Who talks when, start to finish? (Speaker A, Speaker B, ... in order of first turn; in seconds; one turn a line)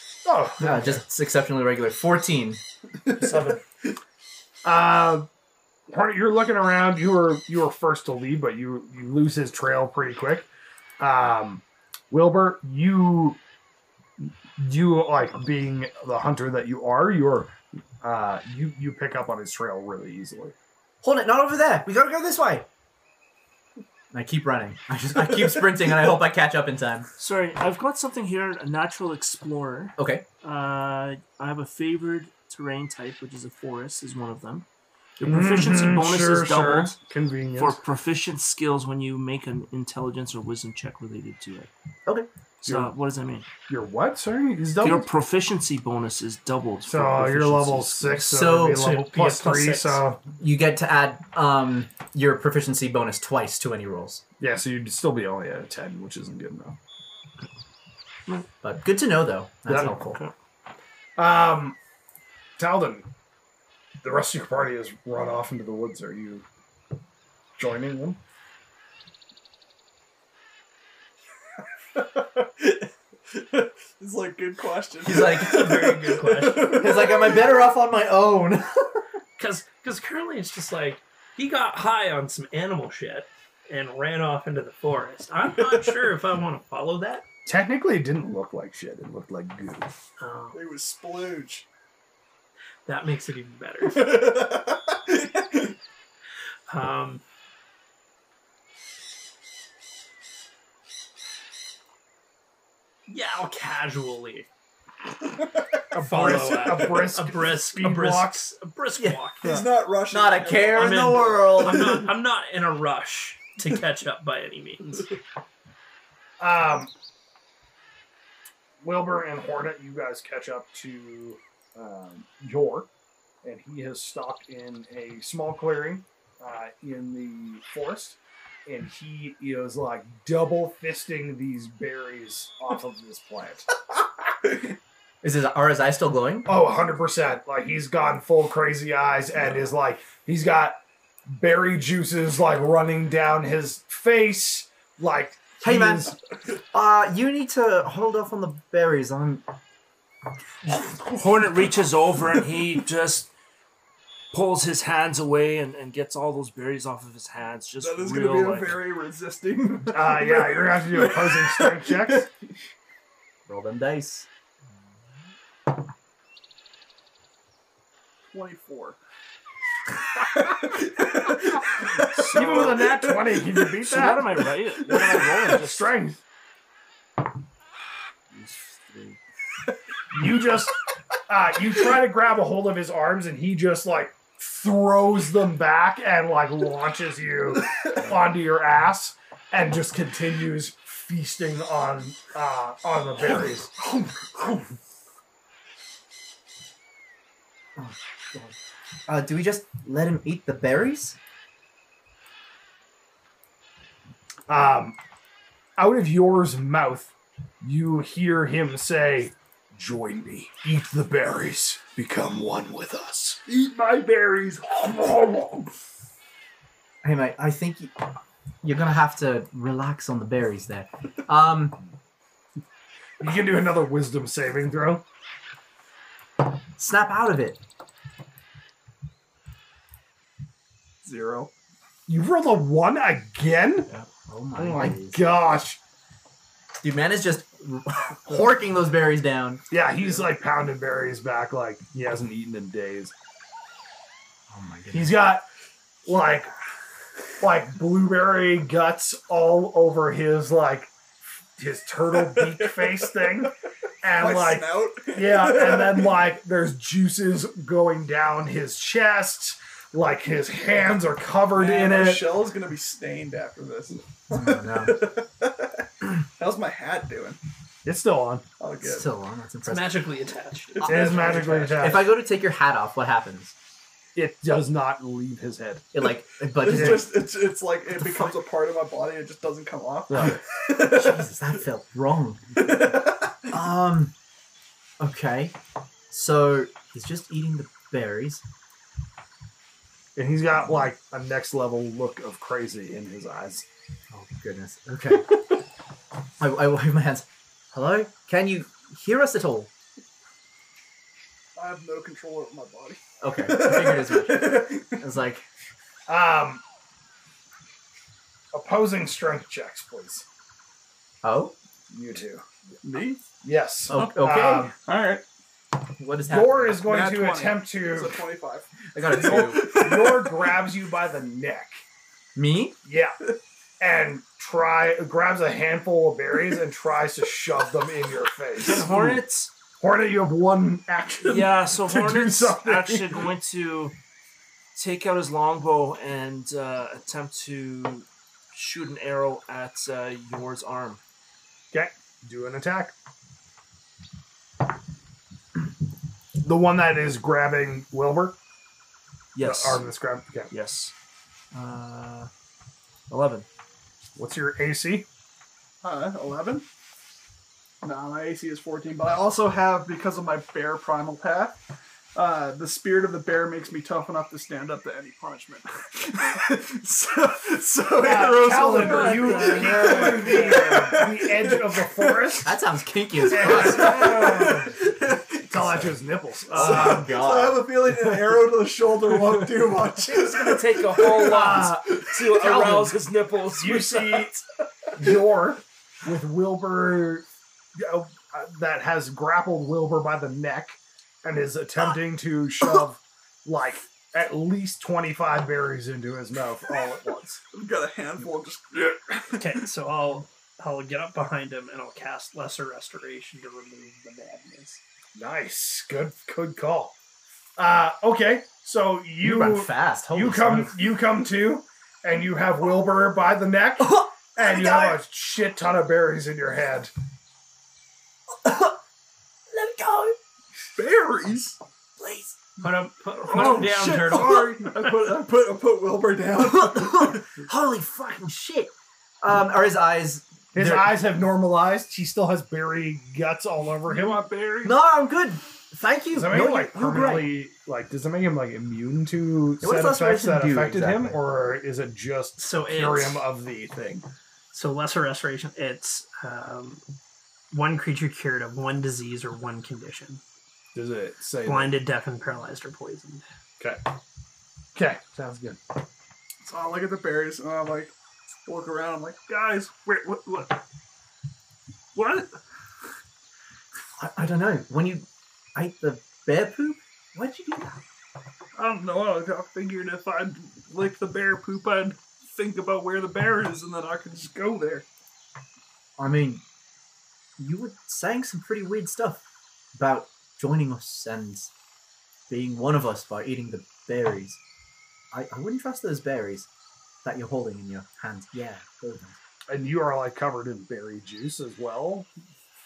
Speaker A: 0.2-1.0
Speaker B: 0.6-2.6
Speaker C: 3.0-3.6
Speaker A: 4.6-5.3
Speaker A: 5.9-10.5
Speaker A: 11.0-13.4
Speaker A: 14.2-20.5
Speaker B: 21.0-22.6
Speaker B: 24.1-27.1
Speaker D: 27.2-34.6
Speaker B: 30.0-30.2
Speaker D: 35.2-37.0
Speaker A: 35.2-37.8
Speaker D: 37.5-41.7
Speaker D: 42.6-43.5
Speaker A: 42.6-42.9
Speaker A: 43.7-45.1
Speaker D: 44.8-48.4
Speaker A: 46.8-50.2
Speaker B: 48.3-54.2
Speaker E: 48.7-49.9
Speaker A: 54.4-56.8
Speaker B: 58.6-60.2
Speaker D: 59.8-60.3
Speaker A: 61.2-61.8
Speaker A: 62.6-63.1
Speaker A: 64.0-66.4
Speaker A: 67.6-68.2
Speaker C: 72.0-77.5
Speaker B: 75.0-79.0
Speaker E: 75.2-76.8
Speaker E: 79.4-87.2
Speaker A: 87.5-89.9
Speaker E: 90.2-90.6
Speaker C: 90.5-91.7
Speaker E: 92.8-94.3
Speaker C: 93.8-95.7
Speaker E: 96.7-97.2
Speaker E: 103.1-104.5
Speaker A: 105.9-108.4
Speaker E: 105.9-109.5
Speaker B: 109.0-112.0
Speaker C: 109.4-111.7
Speaker E: 110.7-115.1
Speaker A: 116.4-116.9
Speaker A: 118.8-122.9
Speaker A: 123.4-133.7
Speaker B: 135.2-136.5
Speaker A: 136.4-146.1
Speaker B: 145.6-146.2
Speaker B: 146.7-149.4
Speaker D: 151.1-153.3
Speaker D: 154.3-158.8
Speaker C: 157.8-162.2
Speaker A: 159.9-162.3
Speaker B: 163.4-164.3
Speaker C: 168.3-169.0
Speaker C: 170.2-173.6
Speaker D: 172.1-172.8
Speaker A: 172.3-174.5
Speaker D: 173.8-175.9
Speaker A: 175.0-176.2
Speaker D: 178.3-179.2
Speaker A: 180.1-194.6
Speaker B: 197.8-198.6
Speaker B: 199.1-201.2
Speaker A: 204.5-205.0
Speaker A: 205.8-215.7
Speaker B: 217.0-221.8
Speaker A: 223.2-225.0
Speaker B: 226.8-227.6
Speaker C: 231.0-231.5
Speaker A: 232.1-233.9
Speaker B: 234.2-235.3
Speaker A: 234.6-235.8
Speaker B: 236.8-239.6
Speaker A: 239.7-243.1
Speaker B: 244.5-245.2
Speaker A: 244.9-245.4
Speaker A: 246.1-246.5
Speaker A: 247.4-250.9
Speaker A: 251.6-262.4
Speaker C: 252.2-253.1
Speaker C: 254.1-256.2
Speaker C: 261.5-267.4
Speaker B: 264.3-265.1
Speaker A: 267.8-268.5
Speaker C: 268.6-269.1
Speaker B: 268.8-270.0
Speaker E: 269.6-271.4
Speaker C: 270.7-271.9
Speaker A: 270.8-272.1
Speaker B: 270.8-273.5
Speaker A: 274.1-275.9
Speaker B: 275.9-277.1
Speaker C: 276.6-281.3
Speaker A: 276.7-277.1
Speaker B: 278.0-278.4
Speaker A: 280.1-280.4
Speaker B: 280.7-282.9
Speaker C: 282.6-283.5
Speaker B: 283.5-284.1
Speaker B: 285.0-285.6
Speaker B: 286.1-288.4
Speaker A: 290.1-293.6
Speaker B: 294.1-295.4
Speaker B: 296.4-299.7
Speaker C: 301.5-305.0
Speaker B: 303.2-305.4
Speaker A: 306.1-306.6
Speaker A: 308.5-310.2
Speaker B: 311.2-311.5
Speaker A: 311.9-312.4
Speaker C: 312.8-313.3
Speaker A: 313.4-314.7
Speaker B: 313.9-314.7
Speaker C: 313.9-315.2
Speaker B: 316.0-316.8
Speaker A: 316.3-318.3
Speaker C: 316.8-320.6
Speaker B: 318.9-319.8
Speaker A: 319.2-321.8
Speaker B: 322.3-322.8
Speaker A: 322.8-323.2
Speaker A: 323.8-329.2
Speaker D: 328.6-329.5
Speaker A: 329.8-333.2
Speaker D: 331.2-333.9
Speaker D: 334.7-341.0
Speaker A: 341.7-342.9
Speaker A: 346.4-348.4
Speaker D: 349.3-349.8
Speaker A: 349.4-350.5
Speaker D: 350.5-350.9
Speaker D: 351.5-352.3
Speaker D: 353.1-353.4
Speaker A: 354.1-355.1
Speaker C: 355.8-356.6
Speaker C: 357.8-361.6
Speaker C: 362.1-372.4
Speaker A: 368.0-372.6
Speaker D: 368.6-370.4
Speaker B: 372.4-374.5
Speaker C: 373.2-375.5
Speaker A: 373.3-374.8
Speaker A: 375.4-377.1
Speaker B: 375.5-375.9
Speaker C: 376.5-382.1
Speaker B: 376.5-377.7
Speaker D: 380.0-384.3
Speaker A: 381.2-383.0
Speaker A: 383.6-384.4
Speaker A: 384.9-387.2
Speaker A: 387.8-397.4
Speaker C: 397.5-399.5
Speaker E: 399.3-404.8
Speaker A: 405.1-406.9
Speaker A: 407.6-416.9
Speaker B: 409.2-410.8
Speaker B: 413.8-415.0
Speaker B: 418.4-418.7
Speaker B: 419.5-420.1
Speaker C: 420.7-421.6
Speaker E: 422.6-425.1
Speaker C: 423.2-427.3
Speaker B: 426.4-431.0
Speaker A: 430.5-434.3
Speaker C: 433.8-434.8
Speaker B: 434.6-437.3
Speaker A: 436.1-444.1
Speaker B: 439.6-441.2
Speaker E: 442.4-443.2
Speaker E: 444.5-446.8
Speaker E: 447.5-450.2
Speaker A: 450.7-451.8
Speaker E: 451.4-453.2
Speaker A: 453.6-453.8
Speaker A: 454.7-455.6
Speaker C: 456.4-457.9
Speaker C: 458.4-460.6
Speaker C: 461.9-462.4
Speaker B: 464.0-467.8
Speaker C: 468.5-474.9
Speaker B: 476.0-476.4
Speaker B: 477.4-479.2
Speaker B: 479.7-481.5
Speaker B: 482.3-484.4
Speaker B: 485.1-486.5
Speaker B: 487.0-489.2
Speaker A: 489.5-492.1